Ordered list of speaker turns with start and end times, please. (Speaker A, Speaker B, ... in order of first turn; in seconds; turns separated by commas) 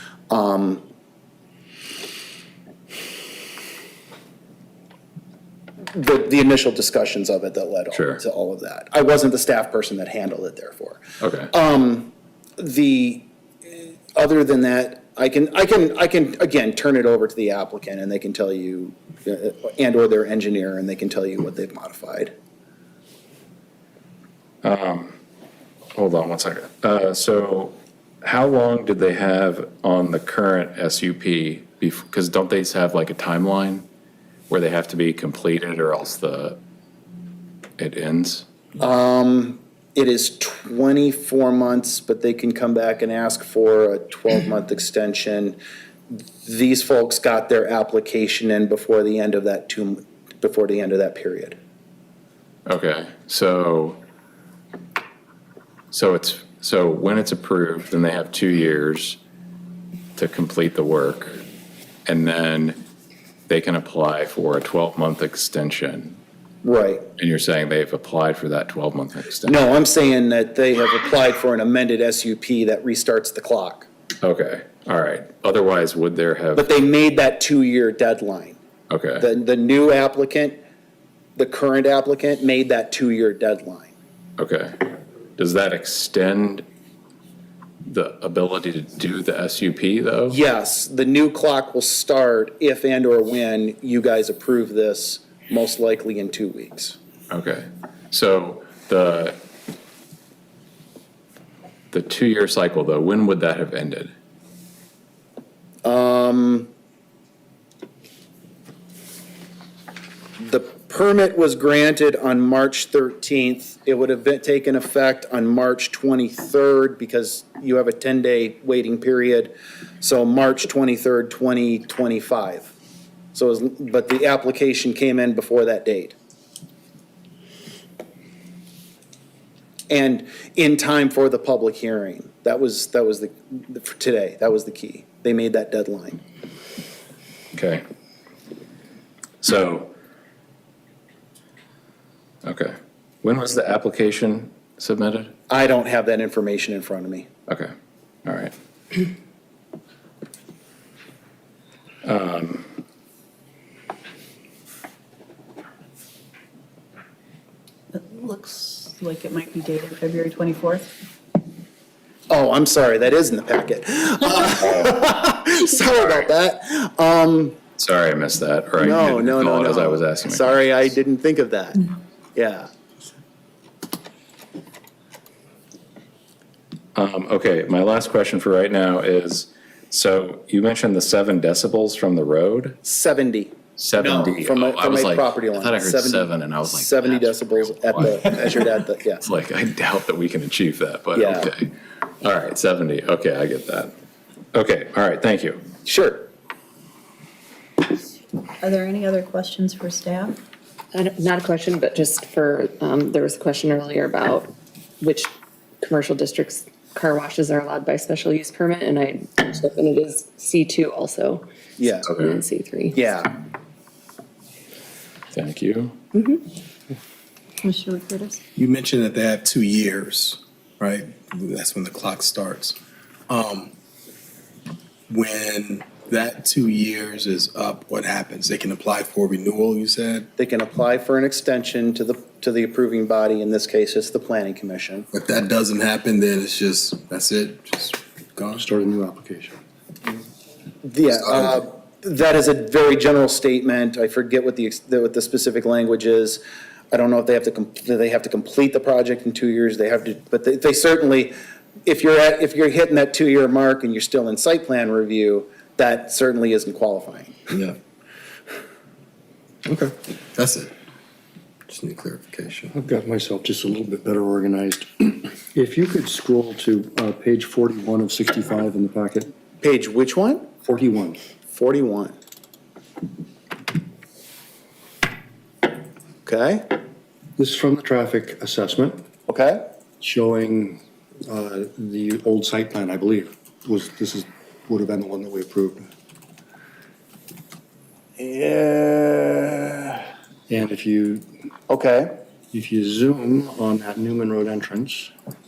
Speaker A: 0.3-0.8, Speaker A: 5.9-13.3, Speaker B: 7.9-8.2, Speaker B: 11.2-11.5, Speaker A: 14.1-22.3, Speaker B: 24.6-25.2, Speaker B: 25.9-33.9, Speaker B: 34.5-36.6, Speaker B: 37.8-38.5, Speaker A: 38.8-45.6, Speaker A: 46.1-51.6, Speaker B: 52.6-54.0, Speaker B: 55.9-59.2, Speaker B: 60.2-61.4, Speaker B: 62.0-62.8, Speaker B: 63.5-66.2, Speaker A: 66.6-67.1, Speaker B: 67.2-69.6, Speaker A: 69.4-73.9, Speaker B: 74.2-76.7, Speaker A: 76.5-78.6, Speaker B: 78.9-79.2, Speaker A: 79.2-80.6, Speaker A: 81.3-83.9, Speaker B: 84.4-84.8, Speaker B: 85.4-86.6, Speaker B: 87.8-90.4, Speaker A: 90.3-97.0, Speaker B: 97.3-99.4, Speaker B: 101.9-104.1, Speaker A: 105.8-106.7, Speaker A: 110.4-122.7, Speaker A: 123.3-126.1, Speaker A: 129.9-136.2, Speaker B: 137.5-137.8, Speaker B: 139.4-139.9, Speaker B: 142.4-145.3, Speaker A: 145.5-147.3, Speaker B: 148.2-148.5, Speaker B: 152.0-152.7, Speaker C: 157.9-160.9, Speaker A: 162.3-167.6, Speaker B: 167.8-170.6, Speaker A: 168.8-172.7, Speaker B: 176.9-182.8, Speaker A: 182.8-189.2, Speaker B: 183.8-188.6, Speaker B: 189.2-193.9, Speaker A: 191.1-191.5, Speaker B: 194.5-195.6, Speaker A: 195.8-196.3, Speaker C: 198.6-200.4, Speaker D: 200.9-213.1, Speaker A: 211.8-212.2, Speaker B: 212.0-212.3, Speaker A: 212.9-213.3, Speaker B: 215.3-215.9, Speaker D: 216.1-216.4, Speaker C: 217.6-218.4, Speaker E: 218.6-222.8, Speaker E: 223.3-223.7, Speaker E: 225.1-230.3, Speaker A: 230.4-235.1, Speaker E: 235.1-238.6, Speaker F: 238.5-239.6, Speaker A: 240.8-251.3, Speaker A: 251.8-257.3, Speaker E: 257.5-257.8, Speaker E: 259.6-260.7, Speaker E: 261.7-262.7, Speaker F: 262.7-269.3, Speaker A: 269.6-270.5, Speaker F: 270.6-271.2, Speaker A: 271.5-272.1, Speaker A: 276.2-276.7, Speaker F: 277.4-279.0, Speaker A: 279.3-279.6, Speaker F: 280.0-285.9, Speaker A: 288.2-290.0, Speaker F: 290.5-291.2, Speaker A: 291.7-292.1, Speaker F: 292.5-295.1